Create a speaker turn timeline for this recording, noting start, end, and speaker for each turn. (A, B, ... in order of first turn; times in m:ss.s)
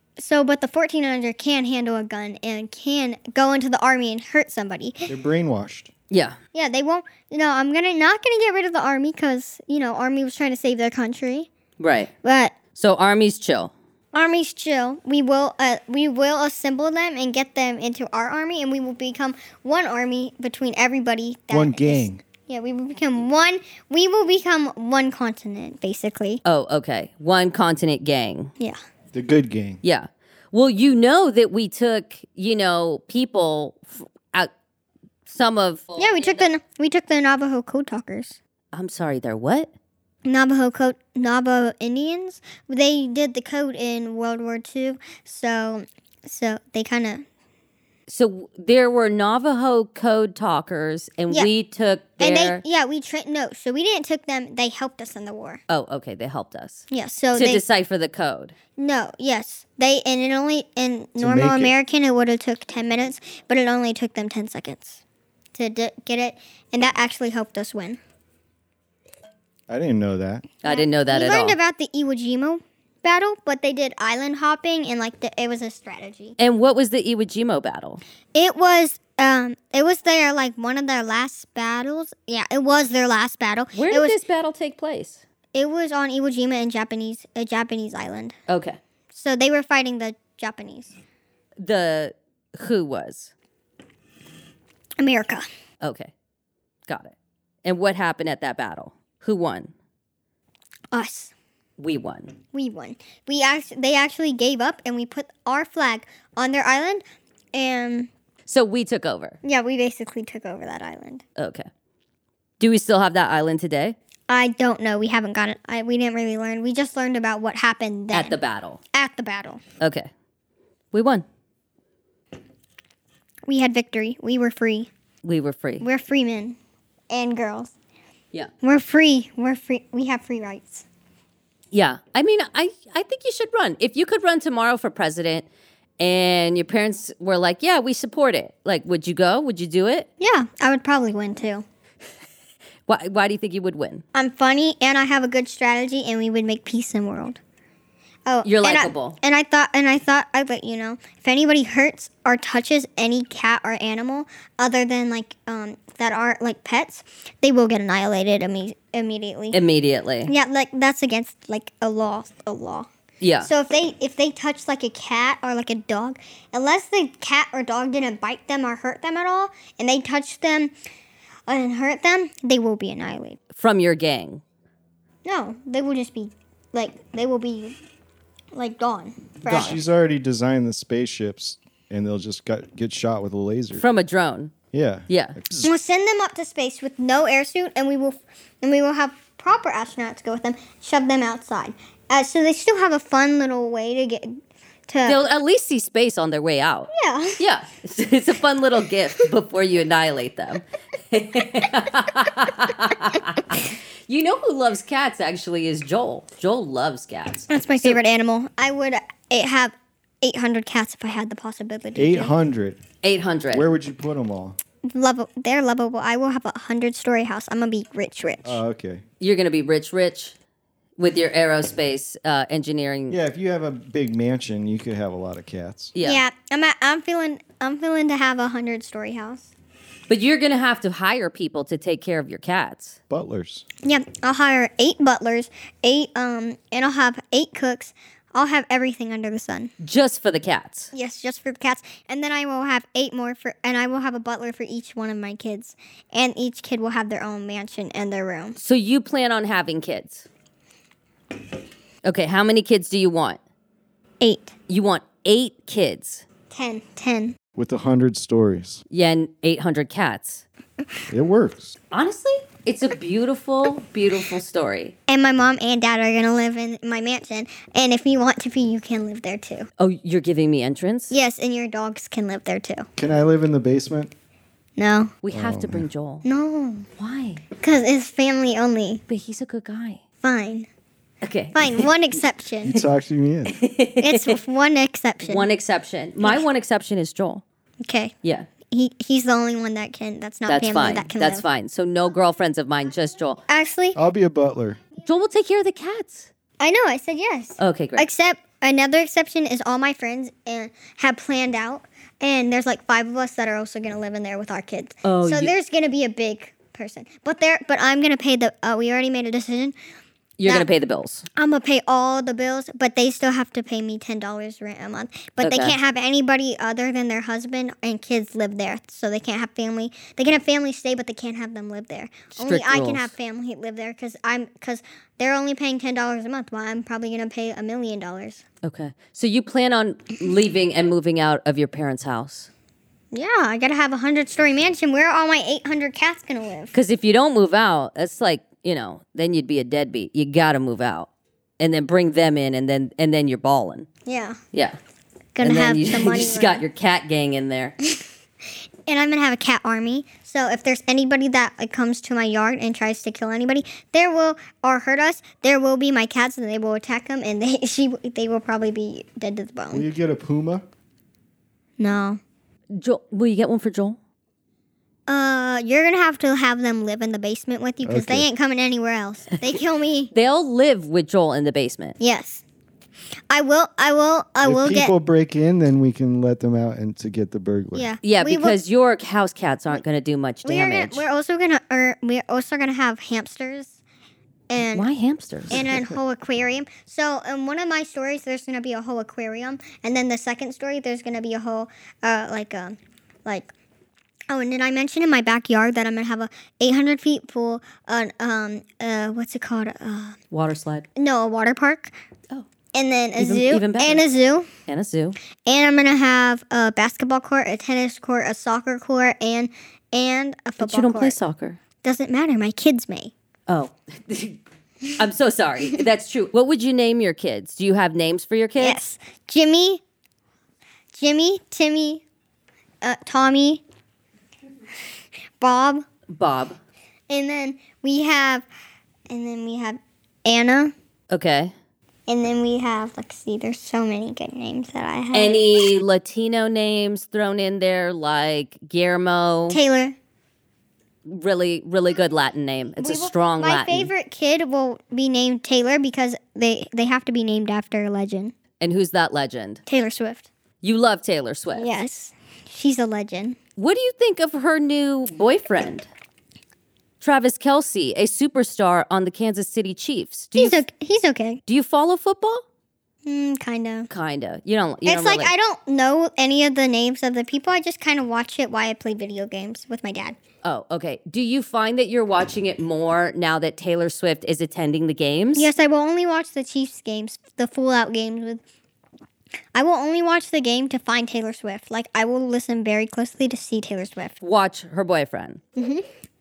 0:00.2-0:05.1 A
0:05.1-0:05.9 B
0:06.1-0:06.4 C
0:06.5-0:11.5 A
0:11.8-0:12.1 C
0:12.2-0:12.5 A
0:12.7-0:13.7 C
0:14.1-0:26.4 A
0:21.5-0:22.2 B
0:26.4-0:28.5 C
0:29.1-0:29.8 B
0:29.8-0:34.5 C
0:35.2-0:36.4 C
0:36.0-0:38.4 A
0:38.7-0:39.7 C
0:40.2-0:47.2 A
0:48.1-0:52.6 C
0:52.2-0:55.6 A
0:55.7-0:58.5 C
0:56.9-0:57.6 A
0:58.8-1:05.0 A
1:01.2-1:01.7 B
1:05.5-1:08.0 A
1:09.7-1:10.4 B
1:10.6-1:11.6 C
1:10.6-1:16.4 A
1:16.4-1:18.0 C
1:18.3-1:24.2 A
1:23.7-1:25.2 C
1:25.5-1:28.4 A
1:28.5-1:28.8 C
1:29.1-1:30.9 A
1:31.6-1:33.3 C
1:35.0-1:35.5 A
1:35.8-1:36.1 C
1:36.9-1:37.1 C
1:37.6-1:39.7 C
1:40.9-1:41.3 A
1:41.8-1:42.3 C
1:42.5-1:47.0 A
1:47.5-1:48.1 A
1:48.5-1:49.4 C
1:49.4-1:51.2 A
1:51.4-1:51.7 C
1:52.6-1:54.0 C
1:54.3-1:58.4 A
1:58.1-1:58.8 C
1:58.9-1:59.6 A
1:59.8-2:00.1 C
2:00.9-2:01.2 C
2:03.5-2:04.9 A
2:05.2-2:05.8 C
2:05.8-2:06.6 A
2:07.1-2:07.7 A
2:08.6-2:10.8 A
2:11.7-2:15.5 C
2:16.0-2:20.1 C
2:20.2-2:21.6 A
2:22.9-2:24.0 C
2:24.1-2:27.4 A
2:28.3-2:39.6 A
2:28.4-2:29.2 C
2:39.5-2:40.3 C
2:40.2-2:42.9 A
2:43.2-2:43.5 C
2:43.4-2:50.7 A
2:51.5-2:53.4 A
2:53.5-2:54.4 C
2:55.2-2:57.8 A
2:58.5-2:59.8 A
2:59.5-2:59.8 C
2:59.5-3:03.8 B
3:03.8-3:04.5 C
3:04.7-3:05.7 B
3:05.1-3:05.4 C
3:05.6-3:15.2 A
3:15.0-3:28.0 C
3:16.9-3:17.4 A
3:27.5-3:32.3 A
3:32.0-3:32.8 B
3:33.0-3:33.6 C
3:33.5-3:34.6 B
3:34.9-3:38.6 A
3:38.4-3:39.0 B
3:39.2-3:40.3 C
3:41.0-3:43.2 C
3:43.1-3:46.0 B
3:46.0-3:46.2 C
3:46.0-3:49.5 A
3:50.1-3:53.0 C
3:53.1-3:53.6 B
3:53.8-3:59.7 A
3:59.8-4:00.9 C
4:00.9-4:08.6 A
4:08.6-4:10.3 C
4:12.0-4:13.4 C
4:14.2-4:14.5 A
4:14.7-4:16.2 C
4:16.5-4:17.4 A
4:17.6-4:18.8 B
4:18.9-4:20.4 C
4:21.1-4:21.7 B
4:21.9-4:24.9 C
4:25.1-4:29.7 A
4:29.8-4:31.1 C
4:31.1-4:32.9 A
4:33.0-4:34.1 B
4:34.8-4:35.1 A
4:35.2-4:36.2 C
4:35.3-4:35.8 B
4:36.2-4:36.9 A
4:37.0-4:37.4 C
4:37.6-4:39.0 A
4:39.1-4:40.0 C
4:40.2-4:40.7 A
4:41.2-4:41.9 C
4:41.5-4:42.8 A
4:42.6-4:43.6 B
4:43.5-4:44.4 C
4:44.0-4:45.5 A
4:45.2-4:47.4 C
4:47.8-4:48.1 A
4:48.7-4:51.4 A
4:50.5-4:53.4 C
4:53.5-4:54.0 A
4:53.9-4:54.8 B
4:55.0-4:56.3 C
4:56.6-5:09.7 A
4:57.6-4:58.0 C
5:05.0-5:05.5 C
5:10.4-5:11.2 C
5:11.4-5:28.4 A
5:15.4-5:15.8 C
5:22.4-5:23.1 C
5:28.6-5:32.5 C
5:33.1-5:36.7 A
5:36.7-5:41.1 C
5:41.6-5:43.9 C
5:44.0-5:44.4 A
5:45.3-5:46.6 A
5:45.4-5:47.8 C
5:48.9-5:59.9 A
5:59.7-6:00.6 B
6:01.8-6:02.2 A
6:02.7-6:04.0 C
6:05.1-6:10.1 A
6:07.8-6:08.2 B
6:10.1-6:12.0 C
6:12.0-6:12.4 A
6:13.3-6:14.9 A
6:14.4-6:17.9 B
6:17.7-6:18.6 A
6:18.0-6:21.0 C
6:20.4-6:23.8 A
6:24.5-6:24.9 A
6:24.7-6:25.8 C
6:25.5-6:33.5 A
6:34.3-6:40.2 A
6:40.3-6:40.8 C
6:41.0-6:41.9 A
6:42.7-6:44.5 A
6:43.2-6:44.0 C
6:44.7-6:45.2 C
6:45.4-6:51.2 A
6:50.6-6:51.6 C
6:51.8-6:53.1 A
6:53.5-6:54.4 C
6:55.0-6:58.8 C
6:58.6-6:59.8 A
7:00.9-7:02.0 A
7:02.8-7:03.6 A
7:05.4-7:05.8 A
7:06.1-7:06.6 C
7:07.1-7:08.4 A
7:09.1-7:10.7 A
7:11.1-7:11.5 C
7:12.1-7:15.6 A
7:15.1-7:19.6 C
7:19.5-7:20.0 A
7:21.0-7:23.9 C
7:22.8-7:28.3 A
7:28.6-7:29.6 C
7:29.6-7:30.3 A
7:30.6-7:31.6 C
7:31.6-7:33.4 A
7:33.6-7:35.9 C
7:37.0-7:40.6 C
7:40.4-7:41.4 A
7:41.5-7:42.4 C
7:43.0-7:43.9 A
7:43.9-7:45.3 C
7:44.8-7:50.2 A
7:50.4-7:55.5 C
7:55.4-7:58.4 A
7:59.5-8:04.2 A
8:04.2-8:05.4 C
8:05.6-8:05.8 A